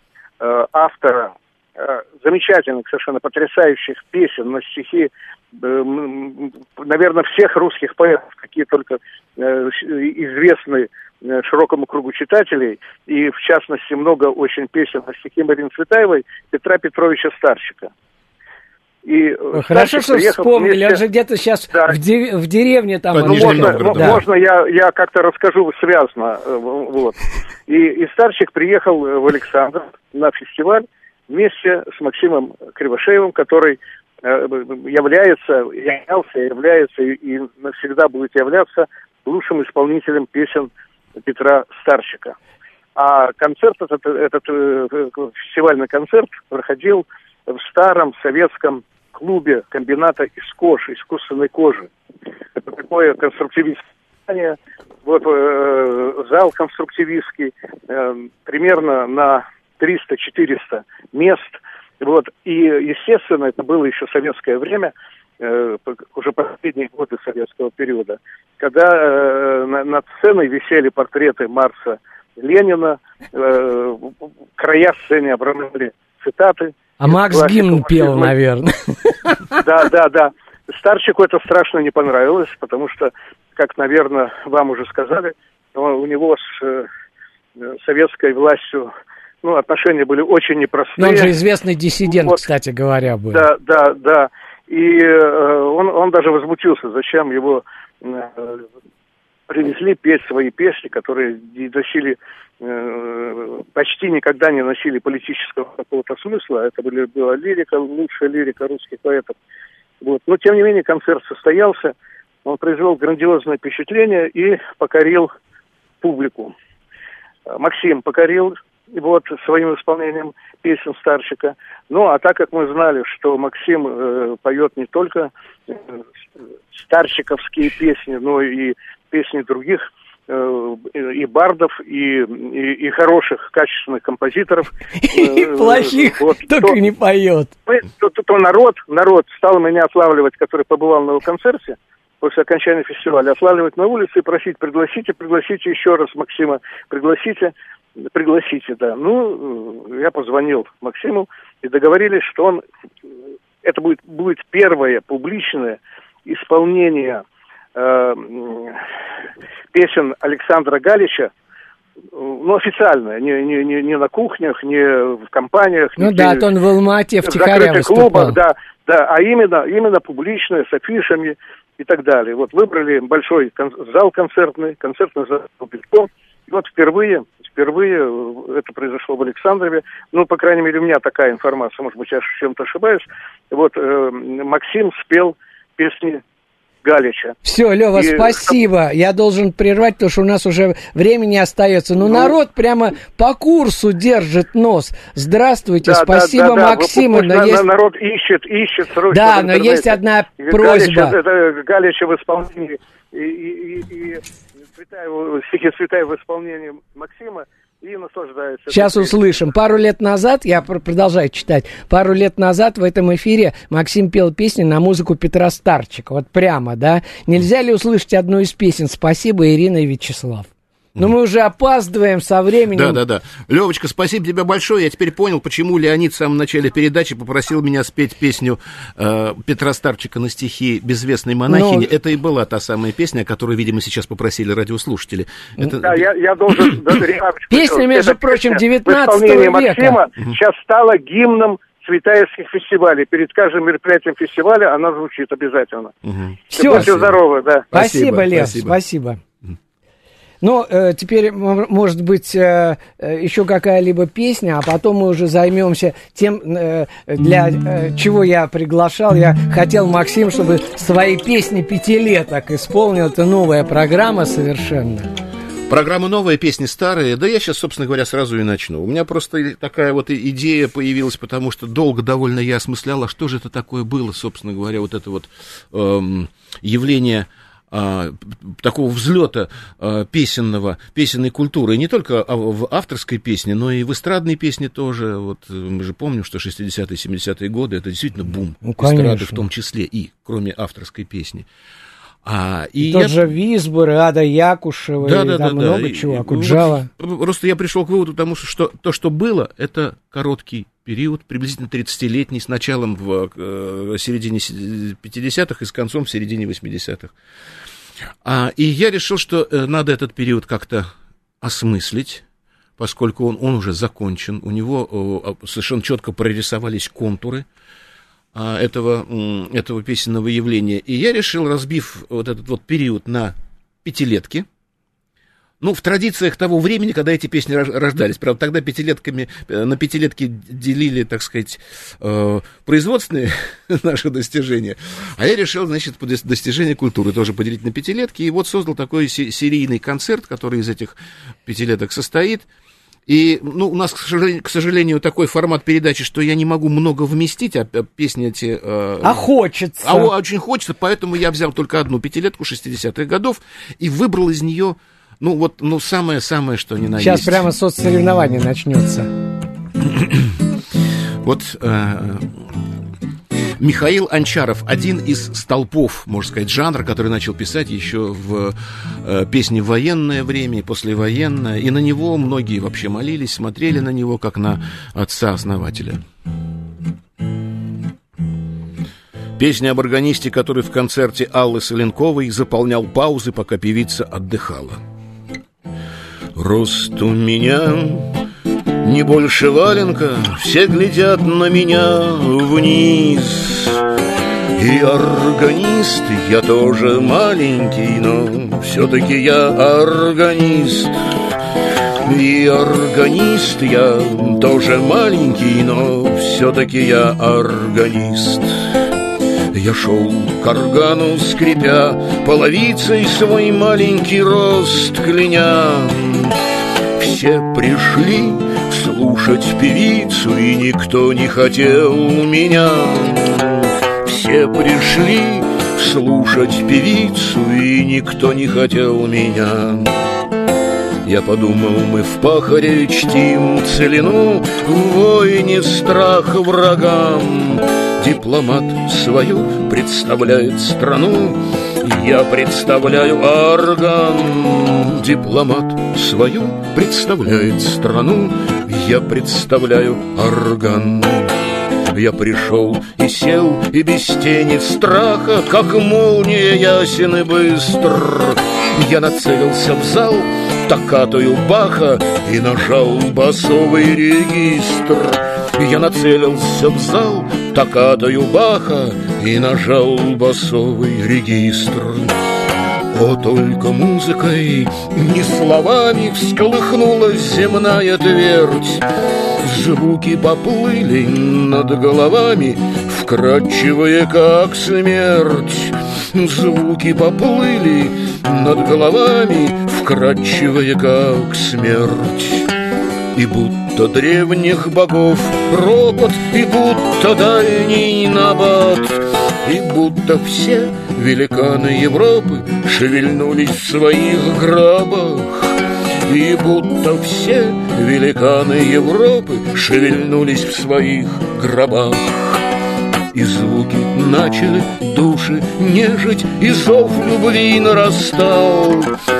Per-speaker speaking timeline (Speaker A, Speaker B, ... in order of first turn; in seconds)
Speaker A: 0.4-17.9, 19.0-21.0, 23.2-40.7, 41.2-42.3, 43.0-51.9, 52.6-78.3, 79.5-86.9, 87.6-88.9, 89.4-91.3, 92.1-92.4, 93.3-98.6, 99.5-109.3, 110.0-115.3, 116.0-116.5, 117.5-125.9, 126.7-136.8, 137.7-152.6, 153.6-157.2, 157.7-158.8, 159.7-161.3, 162.1-166.4, 167.2-186.2, 186.8-187.3, 187.9-188.5, 195.8-204.2, 204.7-209.2, 235.6-245.9, 246.6-247.7
Speaker B: 19.5-24.2, 77.0-79.6, 91.0-93.4, 135.0-137.5, 166.0-168.4, 187.4-197.6, 199.1-201.2, 208.7-223.0, 231.5-231.9, 237.5-240.0, 246.5-247.0, 247.7-249.2, 250.4-265.1, 288.6-289.4, 292.8-296.9, 349.0-350.1, 357.0-359.1
Speaker C: 23.1-24.2, 222.7-236.0, 246.0-247.2, 247.7-248.8, 265.7-291.5, 292.2-293.2, 295.0-307.1, 308.2-310.9, 311.4-312.2, 312.8-317.4, 318.3-324.5, 325.6-342.5, 343.1-349.2, 349.8-357.4, 359.9-360.3, 361.2-362.4, 363.6-376.0, 379.4-384.8, 386.4-388.1, 388.8-393.8, 394.6-401.0, 402.0-408.7, 409.5-416.4, 417.0-429.9, 431.0-451.3, 451.9-472.2, 472.9-478.8, 479.4-492.5, 493.1-512.4, 513.1-518.9